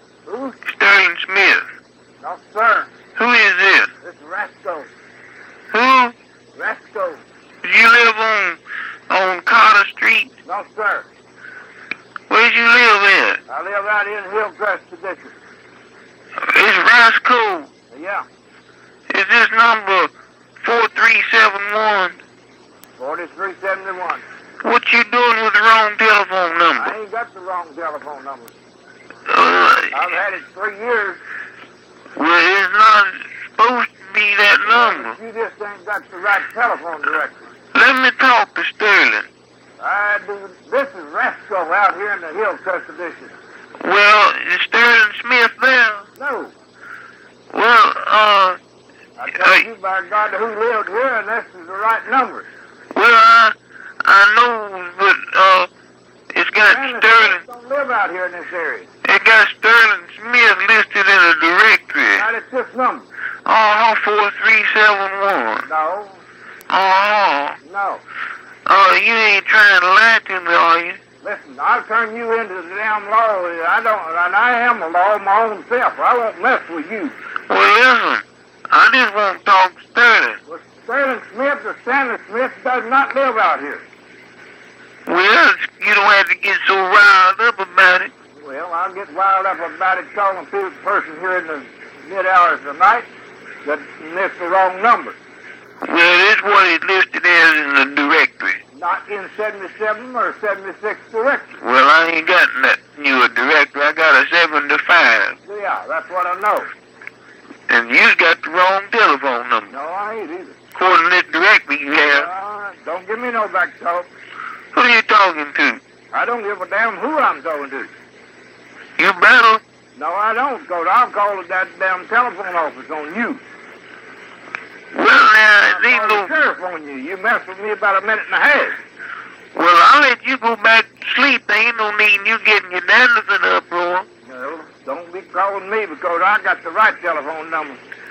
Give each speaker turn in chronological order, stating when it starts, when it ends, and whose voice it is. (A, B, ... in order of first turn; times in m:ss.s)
0:00.2-0:00.6 A
0:00.6-0:01.7 B
0:02.2-0:02.9 A
0:03.2-0:03.9 B
0:04.0-0:04.9 A
0:05.7-0:06.1 B
0:06.5-0:07.2 A
0:07.6-0:10.3 B
0:10.4-0:11.1 A
0:12.3-0:13.4 B
0:13.5-0:15.4 A
0:16.4-0:17.7 B
0:17.9-0:18.2 A
0:19.1-0:22.2 B
0:23.0-0:24.2 A
0:24.6-0:26.9 B
0:26.8-0:28.5 A
0:29.3-0:30.0 B
0:29.9-0:31.2 A
0:32.2-0:35.2 B
0:34.6-0:37.4 A
0:37.7-0:39.3 B
0:39.8-0:43.3 A
0:43.8-0:46.1 B
0:46.2-0:46.5 A
0:47.5-0:48.6 B
0:49.2-0:52.5 A
0:49.3-0:49.6 B
0:52.9-0:55.7 B
0:56.3-0:57.4 B
0:56.6-0:58.9 A
0:59.0-1:02.2 B
1:02.2-1:03.1 A
1:03.4-1:05.6 B
1:05.6-1:06.2 A
1:06.7-1:07.6 B
1:07.6-1:08.0 A
1:08.7-1:11.0 B
1:11.2-1:17.2 A
1:17.5-1:20.4 B
1:20.4-1:23.8 A
1:25.1-1:28.1 B
1:28.4-1:33.1 A
1:33.6-1:35.2 A
1:35.8-1:38.6 B
1:38.7-1:41.6 A
1:41.6-1:45.4 B
1:45.4-1:46.7 A
1:47.7-1:49.7 B
1:49.7-1:50.6 A
1:50.7-1:52.3 B
1:52.1-1:54.1 A
1:54.7-1:55.8 B
1:56.1-1:57.9 A
1:59.0-1:59.6 B
1:59.9-2:03.4 A
2:04.9-2:06.3 B
2:05.7-2:08.8 A
2:09.5-2:14.1 B
2:14.2-2:17.8 A